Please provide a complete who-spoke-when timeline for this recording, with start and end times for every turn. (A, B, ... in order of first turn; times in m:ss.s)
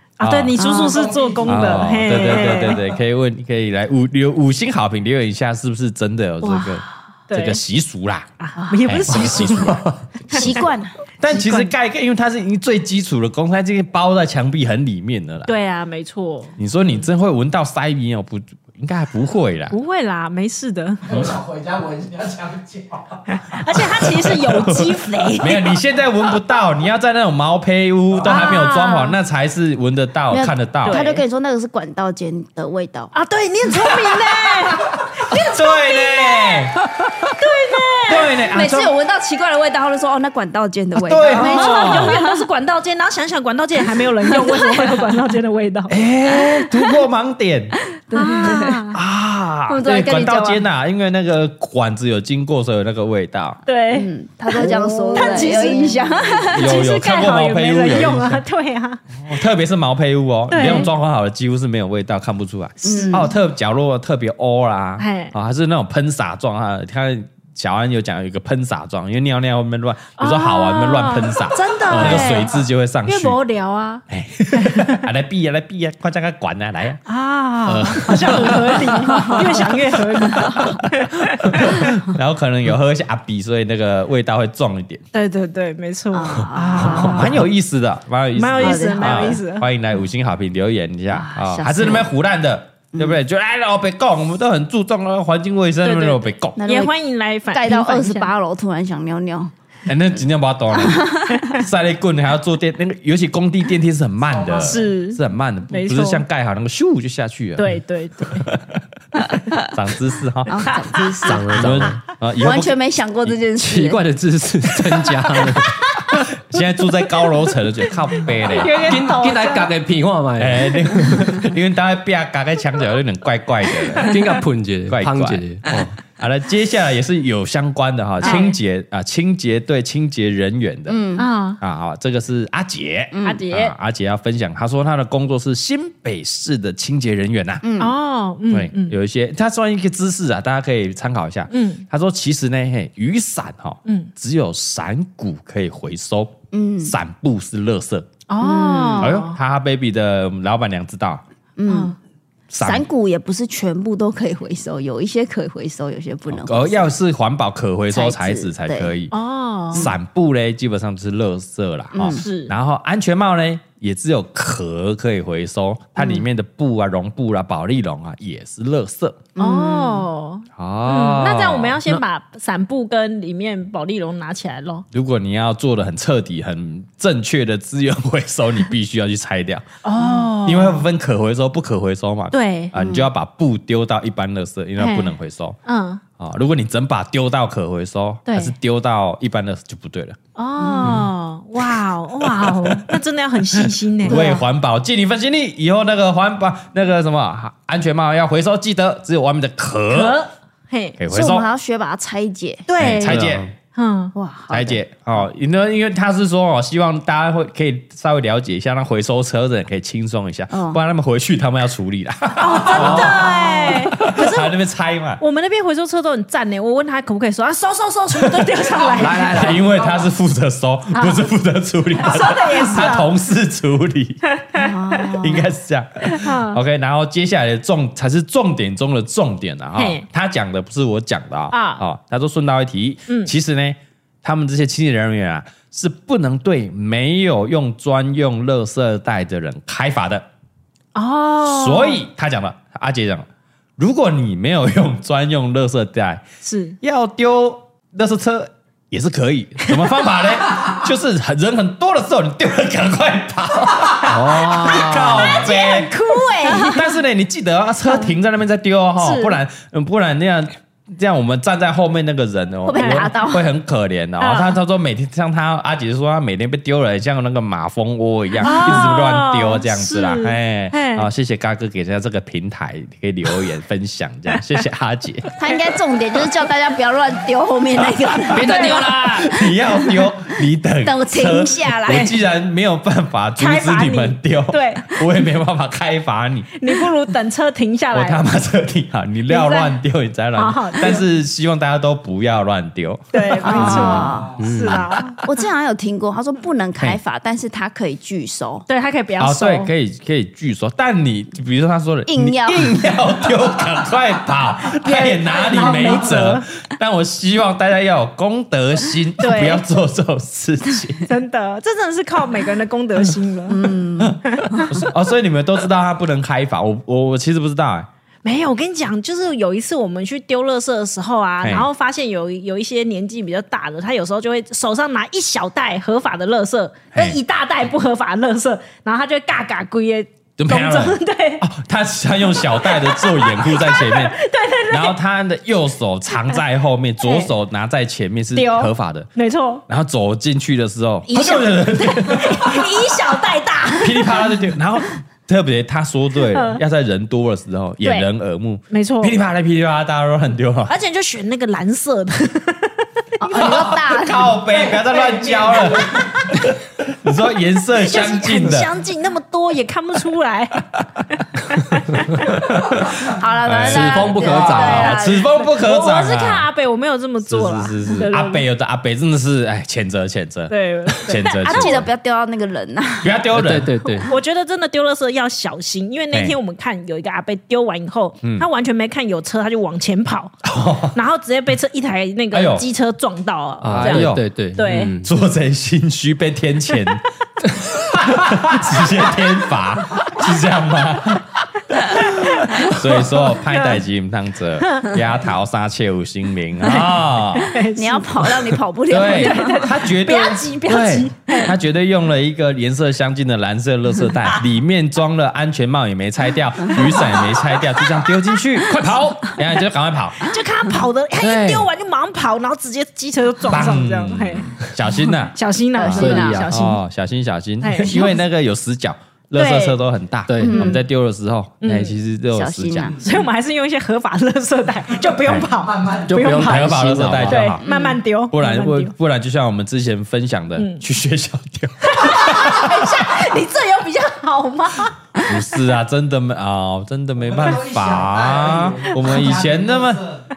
0:00.2-0:02.8 A
0:00.2-0:00.6 B
0:00.6-0:01.0 C
0:00.8-0:02.9 D
0:01.4-0:08.3 B
0:06.4-0:07.6 A
0:08.4-0:10.6 A
0:08.6-0:09.2 C
0:08.8-0:10.6 B
0:10.3-0:11.0 C
0:11.2-0:15.5 B
0:11.3-0:11.7 A
0:15.4-0:16.5 A
0:16.6-0:19.7 B
0:19.7-0:21.0 A
0:21.0-0:23.2 D
0:23.3-0:25.7 A
0:23.9-0:31.0 B
0:28.2-0:29.2 A
0:30.3-0:33.1 C
0:30.8-0:31.2 A
0:33.1-0:36.7 A
0:35.3-0:37.2 B
0:37.3-0:38.3 A
0:38.1-0:38.9 B
0:38.4-0:42.4 C
0:40.9-0:42.2 B
0:41.2-0:46.0 A
0:44.2-0:45.0 C
0:45.9-0:47.8 B
0:47.8-0:48.8 C
0:48.1-0:49.0 A
0:48.9-0:53.6 B
0:49.7-0:50.6 C
0:53.6-0:59.0 A
0:53.9-0:56.8 C
0:56.5-0:58.4 B
0:59.2-1:13.4 B
1:00.5-1:00.9 A
1:02.8-1:03.3 C
1:02.8-1:03.2 A
1:05.0-1:05.3 A
1:10.2-1:15.0 A
1:11.9-1:12.4 E
1:14.1-1:17.0 B
1:17.0-1:21.9 A
1:17.6-1:18.8 E
1:18.1-1:18.6 B
1:20.2-1:20.8 B
1:20.3-1:20.7 C
1:21.4-1:25.0 B
1:25.1-1:27.4 A
1:26.1-1:27.4 C
1:26.8-1:36.6 B
1:28.3-1:29.7 A
1:28.6-1:29.4 C
1:31.1-1:32.1 C
1:35.8-1:38.3 A
1:36.6-1:36.9 C
1:37.5-1:39.5 C
1:39.8-1:47.7 B
1:40.7-1:41.6 C
1:41.3-1:41.6 A
1:44.3-1:44.9 D
1:44.6-1:46.2 A
1:47.6-1:48.5 A
1:48.2-1:48.8 B
1:49.7-1:50.8 B
1:50.4-1:54.0 C
1:51.2-1:52.0 E
1:51.5-1:52.8 B
1:53.6-1:55.8 E
1:56.4-1:59.0 B
1:58.5-1:59.7 A
1:58.8-2:01.3 E
2:00.4-2:04.2 B
2:04.0-2:05.9 E
2:04.9-2:11.0 B
2:08.2-2:08.6 A
2:10.9-2:11.3 C
2:11.2-2:11.6 A
2:11.6-2:17.6 B
2:13.1-2:13.4 C
2:13.2-2:13.7 A
2:17.6-2:17.9 C
2:17.8-2:19.0 A
2:18.5-2:28.1 B
2:21.5-2:21.8 A
2:23.8-2:24.1 A
2:26.5-2:26.9 C
2:28.3-2:29.4 A
2:28.4-2:29.2 C
2:29.0-2:31.2 B
2:31.6-2:31.9 C
2:31.7-2:32.0 A
2:32.5-2:32.9 B
2:32.6-2:37.0 C
2:36.3-2:39.1 B
2:37.9-2:38.9 C
2:39.1-2:39.9 A
2:39.7-2:49.3 B
2:41.9-2:42.2 C
2:42.1-2:42.5 A
2:46.0-2:46.2 C
2:49.3-2:50.0 C
2:49.4-2:54.8 A
2:50.6-2:51.8 B
2:54.9-2:59.7 B
2:59.8-3:00.8 A
3:00.4-3:05.6 B
3:02.3-3:02.7 A
3:02.8-3:03.1 C
3:04.8-3:06.0 A
3:06.2-3:10.2 B
3:08.2-3:08.5 A
3:10.4-3:14.4 A
3:10.6-3:11.0 C
3:11.6-3:12.9 B
3:13.5-3:20.2 B
3:14.1-3:14.4 C
3:19.9-3:21.0 A
3:21.0-3:21.5 B
3:21.1-3:22.7 C
3:22.7-3:24.1 A
3:22.8-3:23.5 B
3:23.0-3:23.5 E
3:24.1-3:24.8 C
3:24.5-3:35.2 B
3:30.5-3:30.8 C
3:32.4-3:34.5 A
3:32.8-3:33.9 C
3:35.2-3:39.6 A
3:38.8-3:40.1 D
3:39.0-3:39.6 E
3:39.1-3:44.2 B
3:40.9-3:41.2 A
3:42.0-3:43.1 A
3:44.3-3:45.1 A
3:44.5-3:45.5 C
3:45.2-4:00.2 B
3:46.0-3:46.6 A
3:49.7-3:50.0 A
3:51.5-3:51.8 A
4:00.9-4:02.0 A
4:01.4-4:03.3 B
4:03.8-4:06.2 B
4:06.4-4:06.8 A
4:06.8-4:15.9 B
4:14.0-4:15.4 E
4:15.2-4:16.9 A
4:16.4-4:16.8 C
4:16.6-4:35.4 B
4:19.0-4:19.4 A
4:22.6-4:23.5 C
4:22.7-4:23.1 A
4:24.2-4:24.6 A
4:28.4-4:31.1 A
4:35.4-4:42.2 C
4:37.9-4:46.5 B
4:38.3-4:39.4 E
4:38.4-4:38.9 A
4:43.4-4:45.0 A
4:46.5-4:48.2 A
4:47.9-4:54.0 B
4:49.3-4:49.8 A
4:50.4-4:51.1 A
4:53.1-4:55.2 A
4:53.4-4:54.3 C
4:54.0-4:54.5 D
4:54.4-4:54.9 E
4:55.2-4:58.6 C
4:58.7-4:59.7 A
4:59.2-5:11.1 B
5:02.1-5:02.9 C
5:04.8-5:06.4 A
5:09.2-5:09.6 A
5:11.1-5:13.7 A
5:13.5-5:14.8 C
5:14.0-5:17.9 B
5:14.2-5:14.7 A
5:18.2-5:31.4 A
5:21.4-5:21.7 B
5:26.9-5:27.2 B
5:30.4-5:39.1 B
5:32.5-5:35.0 A
5:37.0-5:37.3 A
5:38.3-5:39.6 A
5:39.7-5:42.9 B
5:41.1-5:44.2 A
5:43.8-5:50.7 B
5:46.3-5:46.6 A
5:47.8-5:48.1 A
5:48.7-5:49.2 A
5:50.7-5:53.6 A
5:53.2-5:54.3 C
5:53.3-5:58.7 B
5:53.4-5:56.1 D
5:55.5-5:56.3 A
5:57.8-6:00.6 A
6:01.2-6:02.4 A
6:02.2-6:06.5 B
6:03.1-6:05.4 C
6:03.6-6:05.0 E
6:04.5-6:08.4 A
6:07.3-6:11.9 B
6:10.5-6:11.8 A
6:11.2-6:13.3 C
6:13.0-6:13.8 B
6:13.3-6:14.1 E
6:13.8-6:20.3 A
6:20.4-6:21.0 B
6:20.9-6:24.9 A
6:22.3-6:22.6 B
6:23.6-6:25.1 E
6:23.7-6:37.6 B
6:32.0-6:32.6 A
6:33.5-6:33.8 A
6:34.6-6:34.9 A
6:37.4-6:38.4 A
6:37.7-6:39.6 C
6:38.9-6:50.3 B
6:38.9-6:41.5 A
6:50.2-6:54.6 A
6:51.2-6:51.6 B
6:53.5-6:55.4 B
6:55.3-6:56.8 A
6:55.8-6:56.5 C
6:55.8-6:56.5 E
6:56.5-7:02.9 B
6:57.6-6:58.2 A
6:59.3-6:59.8 A
7:00.3-7:00.8 E
7:00.4-7:00.8 C
7:01.6-7:02.0 A
7:02.3-7:02.9 C
7:02.8-7:03.2 D
7:03.0-7:08.9 A
7:05.5-7:06.4 D
7:06.1-7:07.5 E
7:06.4-7:07.6 B
7:07.6-7:08.0 C
7:08.3-7:12.8 B
7:10.6-7:10.8 A
7:11.8-7:15.0 A
7:15.2-7:20.0 B
7:17.2-7:20.2 D